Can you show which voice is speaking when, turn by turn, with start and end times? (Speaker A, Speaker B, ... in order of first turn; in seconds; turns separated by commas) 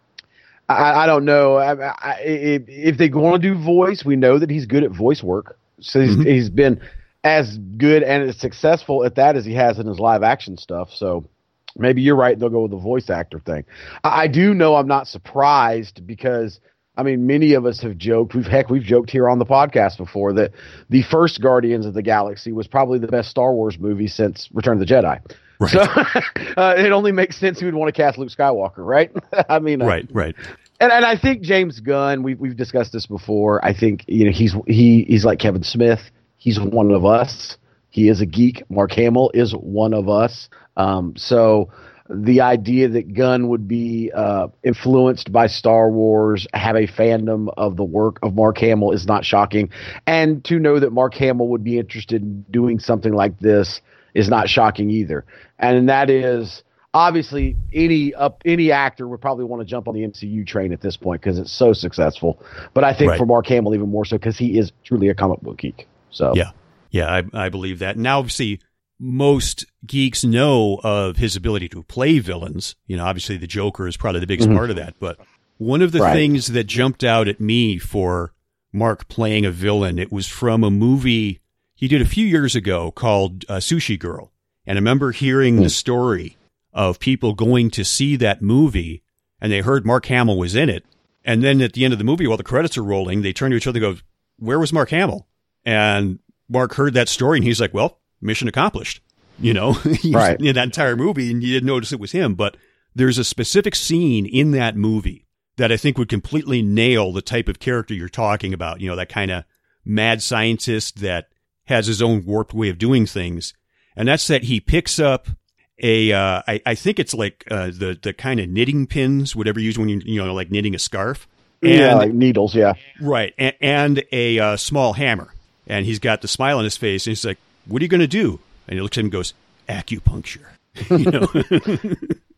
Speaker A: 0.7-11.3, Speaker A: 11.8-30.0, Speaker B: 25.6-25.9, Speaker B: 29.8-30.4, Speaker A: 30.8-66.4, Speaker B: 66.3-122.1, Speaker A: 76.0-76.2, Speaker A: 100.1-100.4, Speaker A: 121.6-122.8, Speaker B: 122.9-132.1